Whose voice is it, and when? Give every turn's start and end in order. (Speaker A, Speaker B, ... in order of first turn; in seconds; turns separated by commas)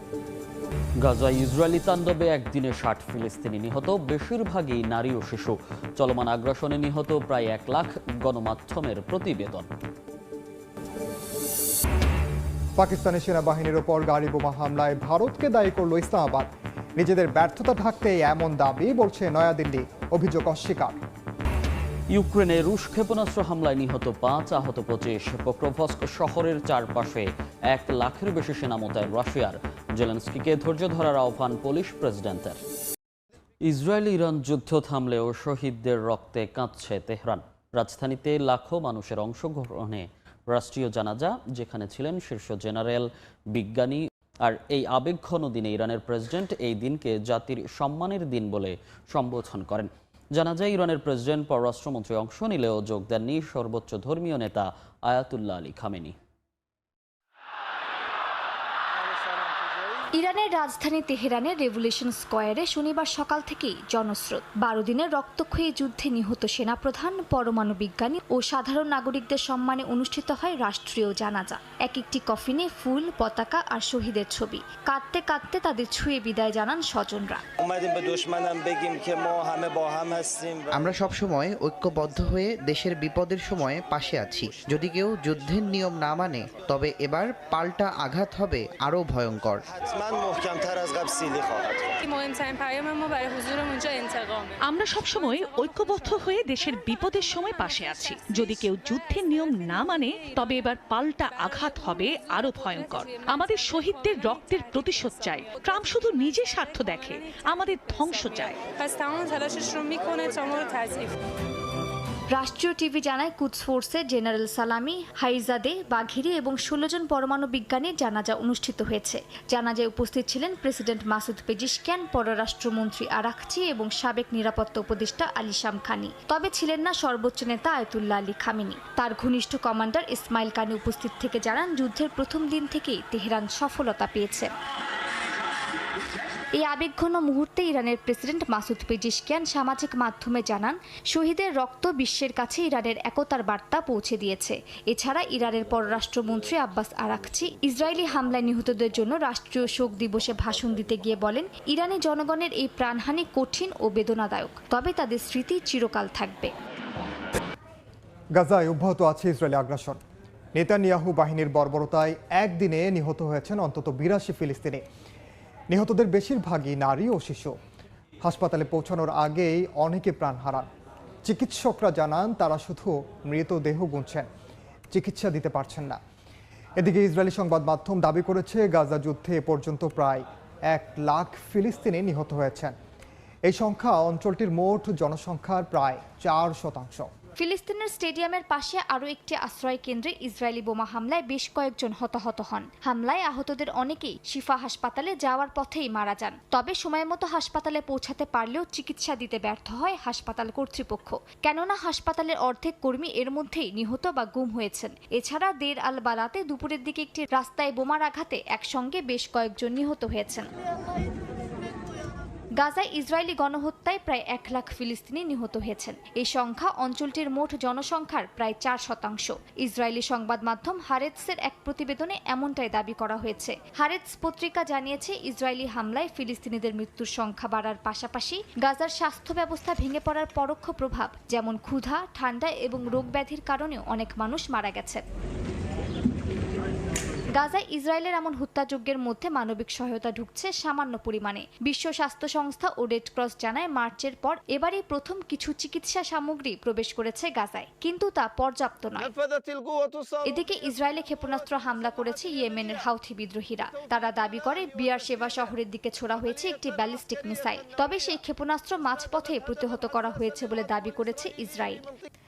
Speaker A: 1.0-9.7, Speaker B: 12.8-21.0, Speaker A: 22.1-32.6, Speaker A: 33.6-56.2, Speaker C: 60.2-77.4, Speaker D: 77.6-80.7, Speaker E: 80.7-89.6, Speaker D: 89.7-92.1, Speaker F: 93.1-94.0, Speaker G: 94.7-108.6, Speaker F: 108.9-111.0, Speaker C: 112.3-134.5, Speaker C: 136.6-156.5, Speaker B: 158.4-160.0, Speaker B: 160.6-164.8, Speaker B: 165.7-167.6, Speaker B: 168.2-170.7, Speaker B: 171.2-174.2, Speaker B: 174.9-176.0, Speaker B: 176.8-182.7, Speaker B: 183.5-187.1, Speaker C: 187.4-210.5, Speaker C: 212.6-235.0, Speaker C: 237.3-249.1, Speaker C: 250.2-261.9